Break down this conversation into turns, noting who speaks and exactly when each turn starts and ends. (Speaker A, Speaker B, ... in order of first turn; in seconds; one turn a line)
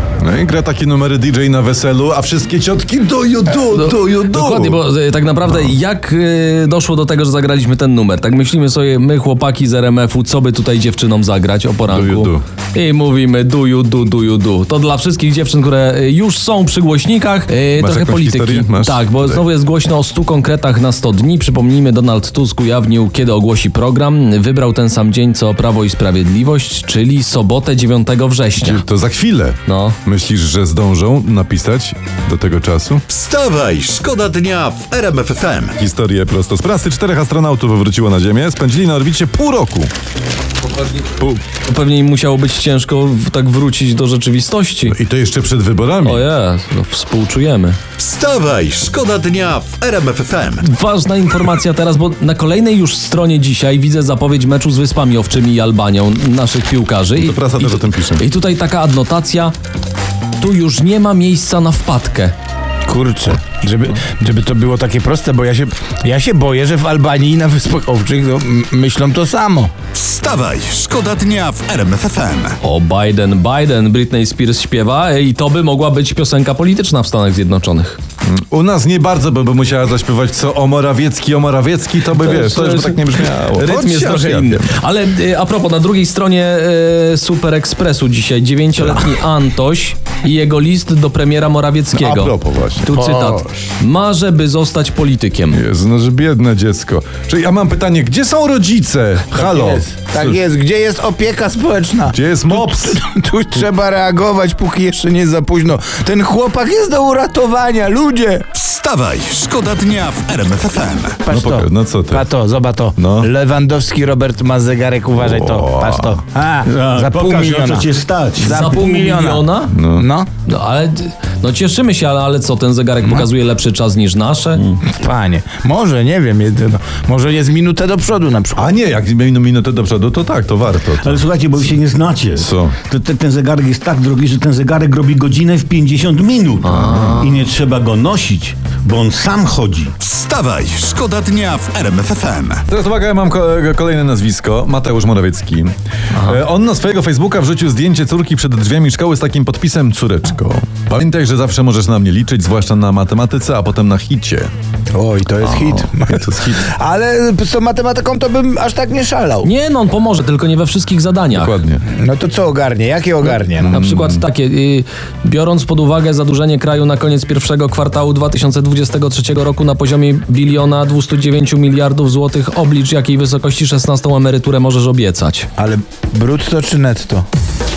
Speaker A: 0.2-4.8
Speaker B: 3.7-28.8
Speaker A: 11.9-12.4
Speaker A: 17.8-19.4
Speaker A: 28.6-33.0
Speaker B: 29.6-30.0
Speaker C: 33.1-35.8
Speaker A: 35.8-39.9
Speaker B: 41.5-45.0
Speaker A: 44.9-46.2
Speaker B: 46.0-47.8
Speaker C: 48.0-50.6
Speaker B: 50.6-59.5
Speaker A: 57.2-58.2
Speaker B: 60.4-62.3
Speaker D: 62.9-69.7
Speaker C: 69.9-72.6
Speaker B: 72.6-78.0
Speaker A: 78.2-84.7
Speaker B: 82.1-92.3
Speaker A: 88.8-89.1
Speaker A: 91.9-92.9
Speaker B: 92.8-95.6
Speaker D: 92.9-93.7
Speaker A: 95.5-100.4
Speaker D: 99.3-108.4
Speaker A: 102.1-103.0
Speaker C: 108.5-111.3
Speaker D: 111.2-120.3
Speaker A: 111.3-112.2
Speaker A: 113.0-113.3
Speaker A: 115.2-116.2
Speaker E: 116.6-118.9
Speaker B: 118.4-119.7
Speaker A: 119.7-120.1
Speaker B: 120.5-124.8
Speaker D: 124.8-128.8
Speaker A: 128.6-131.2
Speaker E: 131.0-139.9
Speaker A: 132.4-132.8
Speaker B: 136.6-137.4
Speaker A: 136.9-137.2
Speaker C: 140.0-142.6
Speaker A: 142.7-154.5
Speaker D: 154.9-159.5
Speaker A: 155.4-156.7
Speaker B: 159.4-161.6
Speaker A: 161.3-161.8
Speaker D: 161.9-163.8
Speaker B: 163.4-175.5
Speaker A: 163.6-164.2
Speaker D: 175.6-177.2